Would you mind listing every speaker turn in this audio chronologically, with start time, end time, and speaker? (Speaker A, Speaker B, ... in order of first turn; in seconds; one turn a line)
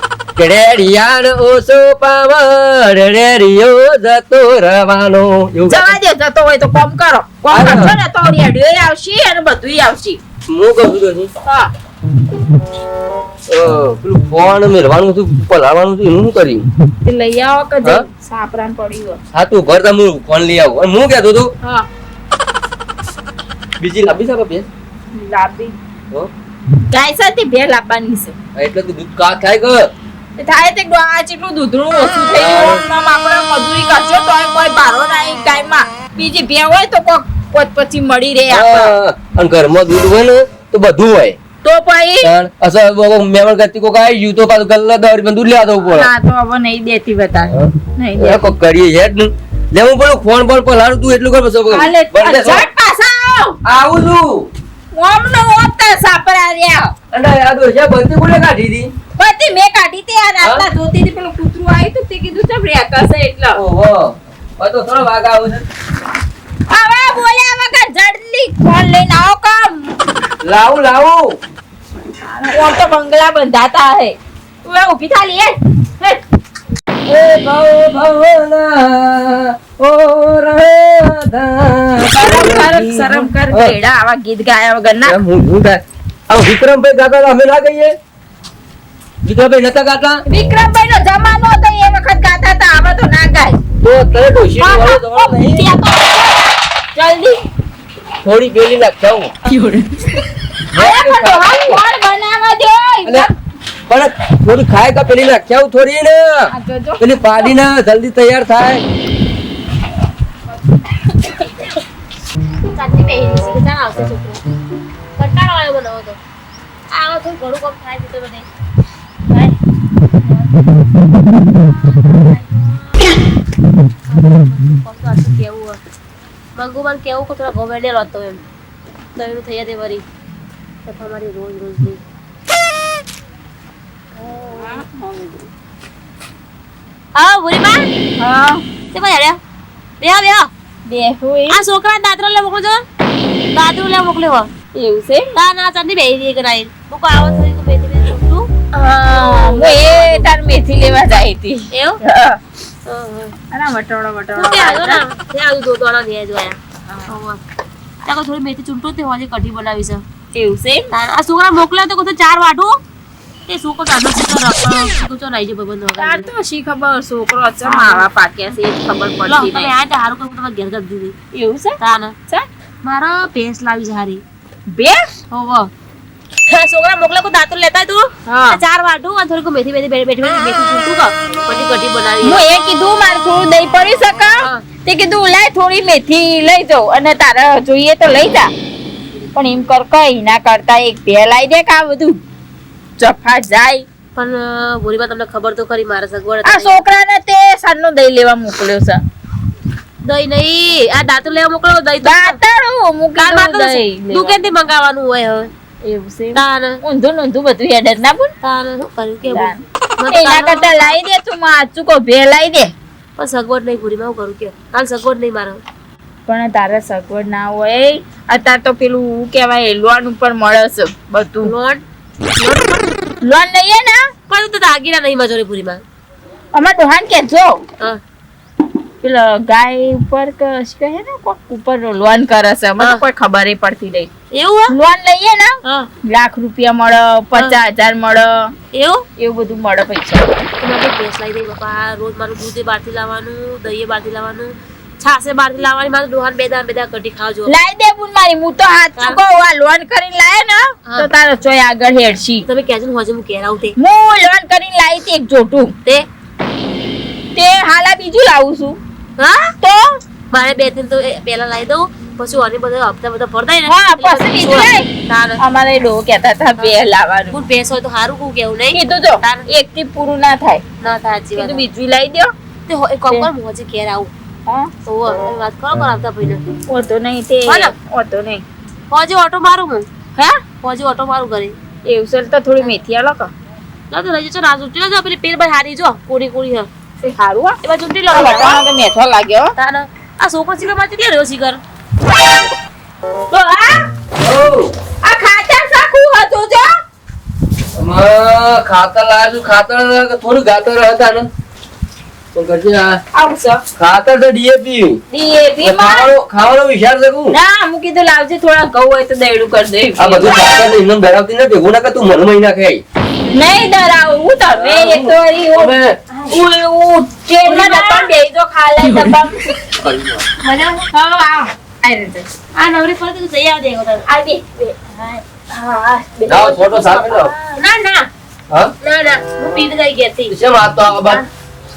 Speaker A: 0.3-6.0
Speaker B: 5.7-10.2
Speaker A: 7.5-8.0
Speaker A: 10.5-11.3
Speaker A: 13.5-16.6
Speaker B: 17.0-19.2
Speaker A: 19.3-21.5
Speaker A: 23.8-24.7
Speaker B: 25.2-25.7
Speaker B: 26.9-28.3
Speaker A: 28.5-29.9
Speaker B: 30.4-38.9
Speaker A: 32.3-32.8
Speaker A: 38.5-41.4
Speaker B: 41.6-42.3
Speaker A: 42.2-46.1
Speaker B: 45.8-48.5
Speaker A: 47.5-52.6
Speaker B: 51.7-53.6
Speaker A: 53.6-54.5
Speaker B: 54.9-56.9
Speaker A: 57.1-58.9
Speaker B: 59.2-63.6
Speaker A: 60.4-60.7
Speaker A: 63.5-65.6
Speaker B: 66.7-69.9
Speaker A: 70.4-71.3
Speaker B: 72.3-76.2
Speaker A: 77.1-83.8
Speaker B: 82.1-85.2
Speaker A: 85.0-87.9
Speaker A: 89.2-90.2
Speaker B: 90.3-93.6
Speaker A: 93.8-95.7
Speaker B: 94.6-97.4
Speaker A: 98.2-99.3
Speaker B: 99.5-100.2
Speaker A: 100.7-101.8
Speaker B: 100.8-103.3
Speaker A: 103.0-103.3
Speaker A: 103.9-108.8
Speaker B: 106.5-107.5
Speaker C: 113.3-114.4
Speaker C: 115.2-116.2
Speaker C: 116.9-118.5
Speaker C: 119.3-119.6
Speaker C: 120.2-120.8
Speaker C: 121.5-123.2
Speaker C: 124.1-125.8
Speaker C: 126.5-128.4
Speaker C: 129.2-130.0
Speaker C: 130.8-132.0
Speaker C: 134.2-134.8
Speaker B: 134.3-135.4
Speaker C: 137.1-137.9
Speaker B: 138.2-138.6
Speaker C: 138.9-139.4
Speaker C: 140.0-140.5
Speaker B: 140.9-141.6
Speaker C: 141.5-142.8
Speaker C: 143.5-144.5
Speaker B: 144.8-145.3
Speaker C: 145.3-150.3
Speaker B: 149.1-152.4
Speaker C: 151.7-152.0
Speaker C: 152.8-153.3
Speaker B: 153.5-155.0
Speaker C: 154.3-157.4
Speaker C: 158.1-160.0
Speaker B: 160.3-160.9
Speaker C: 160.9-162.8
Speaker C: 163.5-166.3
Speaker B: 166.0-169.7
Speaker C: 167.6-168.1
Speaker C: 169.3-171.2
Speaker B: 171.3-171.8
Speaker C: 171.8-172.2
Speaker C: 172.8-174.2
Speaker B: 174.7-175.1
Speaker C: 175.3-175.7
Speaker C: 176.5-182.5
Speaker B: 178.3-178.6
Speaker B: 182.2-188.5
Speaker C: 184.3-184.6
Speaker B: 189.3-192.2
Speaker B: 193.0-193.8
Speaker C: 194.1-196.8
Speaker B: 196.4-199.0
Speaker C: 200.0-202.4
Speaker B: 202.0-204.5
Speaker C: 203.2-205.5
Speaker B: 205.9-208.3
Speaker C: 206.3-206.8
Speaker C: 208.4-211.0
Speaker B: 209.3-212.7
Speaker C: 213.2-215.6
Speaker B: 216.3-221.5
Speaker C: 221.4-221.8
Speaker C: 222.4-222.9
Speaker B: 223.2-224.0
Speaker C: 224.3-225.8
Speaker B: 226.5-227.6
Speaker B: 229.0-234.1
Speaker C: 232.8-233.0
Speaker C: 234.3-234.8
Speaker B: 234.7-235.5
Speaker C: 235.6-235.9
Speaker B: 236.0-238.3
Speaker C: 237.3-237.6
Speaker C: 238.7-239.1
Speaker B: 239.2-240.4
Speaker C: 240.6-247.6
Speaker B: 247.5-252.4
Speaker C: 252.4-253.7
Speaker B: 253.8-255.7
Speaker B: 257.4-258.8
Speaker C: 259.2-259.5
Speaker B: 259.6-259.9
Speaker C: 260.3-265.4
Speaker B: 263.7-264.9
Speaker B: 265.4-267.4
Speaker C: 267.3-269.4
Speaker B: 268.7-270.6
Speaker C: 270.8-271.7
Speaker B: 271.4-272.3
Speaker C: 272.7-274.1
Speaker C: 274.9-276.4
Speaker B: 276.7-278.4
Speaker C: 277.5-277.7
Speaker C: 278.9-279.9
Speaker C: 280.6-281.5
Speaker B: 281.9-283.3
Speaker C: 283.9-286.7
Speaker B: 287.0-287.6
Speaker C: 287.6-288.6
Speaker B: 288.1-289.5
Speaker C: 289.5-291.6
Speaker B: 293.3-293.9
Speaker A: 294.2-294.7
Speaker B: 295.0-296.6
Speaker A: 297.8-301.3
Speaker A: 302.3-303.0
Speaker B: 303.2-303.6
Speaker A: 303.8-305.0
Speaker B: 305.1-306.1
Speaker A: 305.6-307.4
Speaker B: 307.3-310.7
Speaker A: 310.0-312.8
Speaker B: 313.3-315.7
Speaker A: 314.5-316.0
Speaker C: 316.1-316.4
Speaker B: 316.3-319.5
Speaker C: 317.4-318.1
Speaker A: 319.8-320.2
Speaker C: 320.4-320.9
Speaker B: 320.9-322.3
Speaker C: 322.5-324.1
Speaker B: 324.1-327.2
Speaker A: 326.3-327.3
Speaker C: 327.5-328.1
Speaker C: 328.8-330.3
Speaker A: 330.3-331.2